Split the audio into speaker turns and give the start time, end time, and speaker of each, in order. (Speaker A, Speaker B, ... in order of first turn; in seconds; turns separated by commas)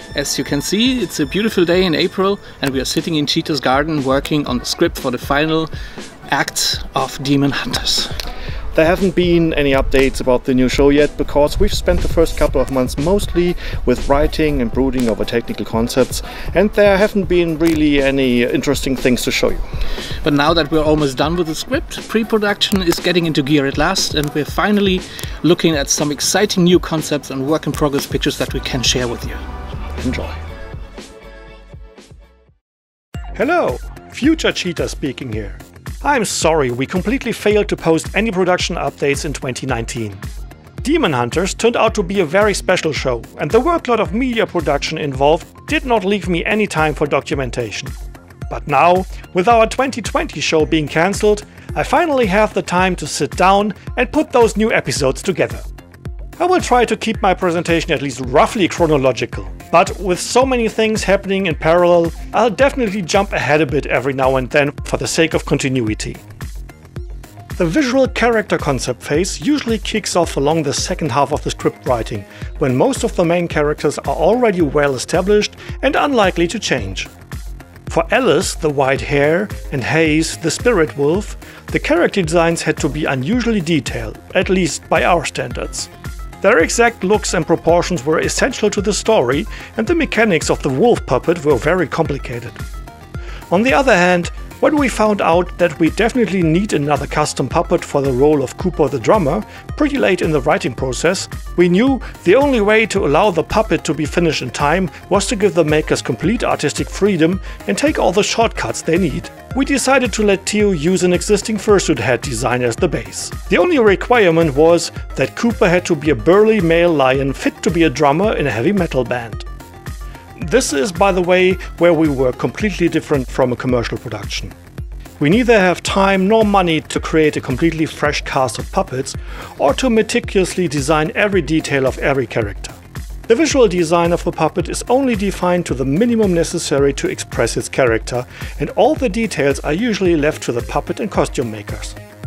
Speaker A: 0.1-5.7, Speaker A: 6.3-8.1, Speaker B: 8.8-17.9, Speaker C: 9.8-16.0, Speaker C: 16.7-19.6, Speaker A: 20.2-29.4, Speaker C: 30.0-30.3, Speaker B: 33.4-40.2, Speaker B: 40.8-47.9, Speaker B: 48.5-55.6, Speaker B: 56.4-66.2, Speaker B: 67.6-77.1, Speaker B: 77.9-85.9, Speaker B: 86.4-92.6, Speaker B: 93.5-119.5, Speaker B: 120.4-124.5, Speaker B: 125.2-132.8, Speaker B: 133.3-141.9